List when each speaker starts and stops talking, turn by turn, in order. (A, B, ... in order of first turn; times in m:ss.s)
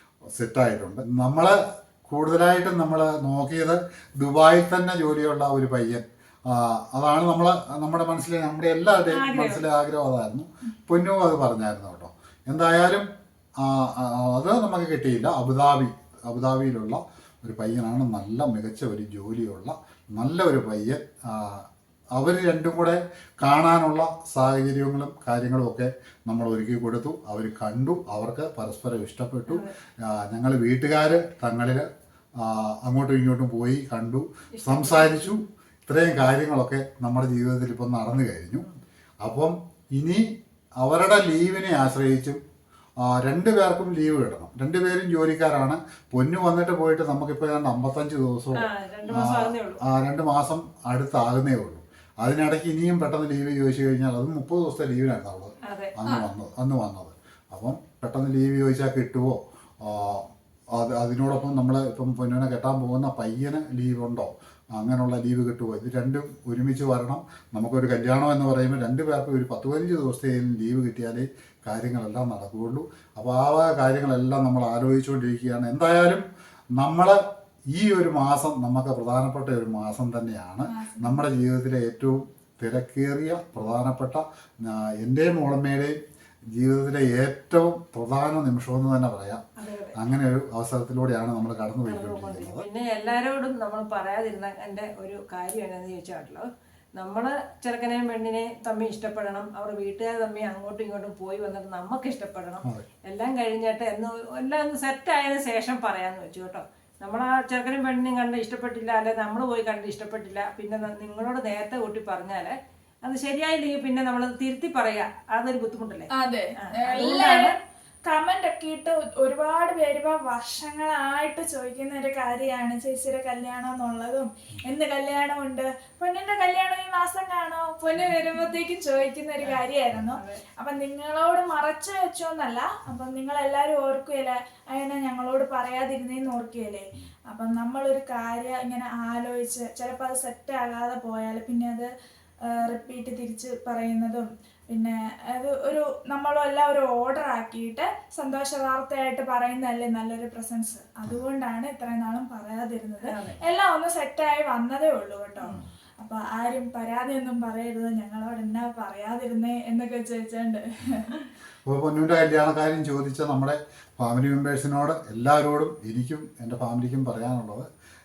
0:00.3-0:13.0 A
0:09.1-0:09.6 B
0:13.6-0:38.7 A
0:29.5-0:29.7 B
0:34.5-0:35.2 B
0:39.2-0:42.4 A
0:43.0-1:26.0 A
0:48.5-0:49.8 B
0:55.6-0:55.9 B
1:20.7-1:21.2 C
1:26.5-1:29.4 A
1:29.6-1:30.0 B
1:29.9-1:32.6 A
1:31.8-1:57.5 B
1:56.1-1:57.5 C
1:58.0-2:21.9 C
2:10.2-2:10.4 B
2:22.4-2:41.2 C
2:33.0-2:33.4 B
2:41.6-2:47.7 A